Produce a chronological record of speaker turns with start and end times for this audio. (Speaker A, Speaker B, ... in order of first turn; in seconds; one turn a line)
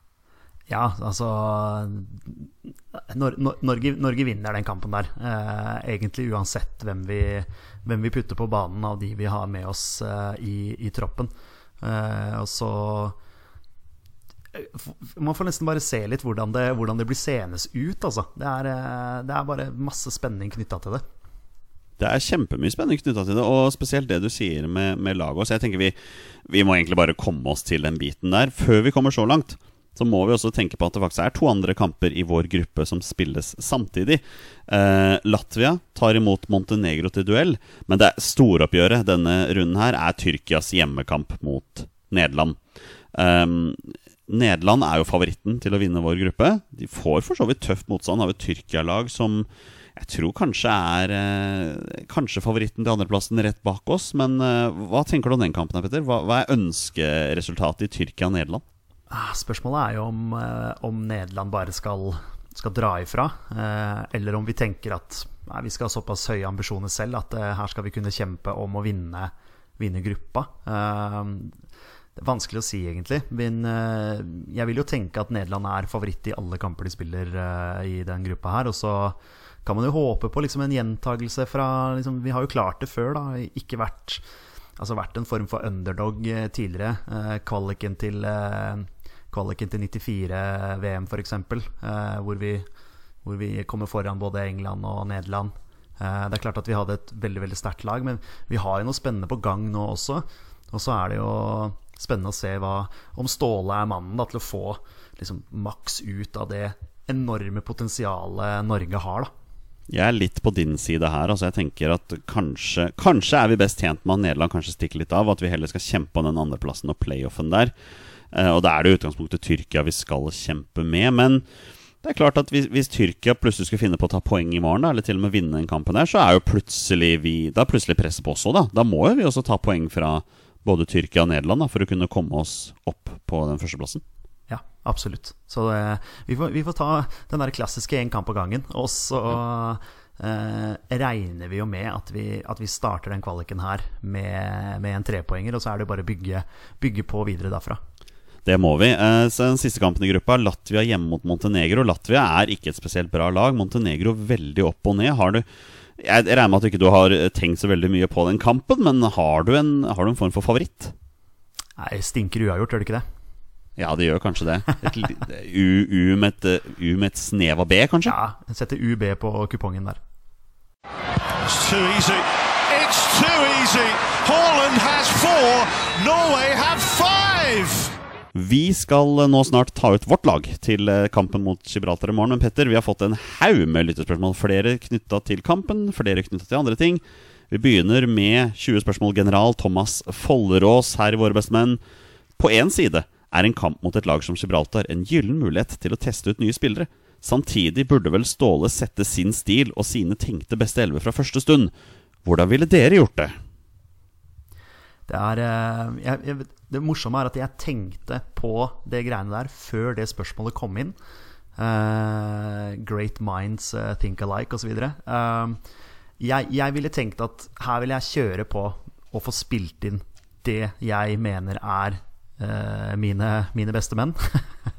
Speaker A: 0.7-13.2
Speaker A: 14.5-21.0
Speaker B: 22.0-42.6
Speaker B: 43.1-58.6
Speaker A: 59.1-71.5
Speaker A: 72.2-84.2
Speaker A: 84.8-92.6
Speaker A: 93.2-109.3
Speaker B: 109.9-117.7
Speaker B: 118.3-121.4
Speaker B: 122.0-134.0
Speaker A: 134.5-147.8
Speaker B: 148.4-155.4
Speaker B: 156.0-160.9
Speaker A: 161.8-163.0
Speaker B: 163.8-168.1
Speaker A: 168.0-170.0
Speaker C: 171.4-177.9
Speaker B: 178.3-191.8
Speaker B: 192.4-201.7
Speaker B: 202.2-203.3
Speaker A: 205.1-210.9
Speaker A: 211.6-215.6
Speaker A: 216.2-224.6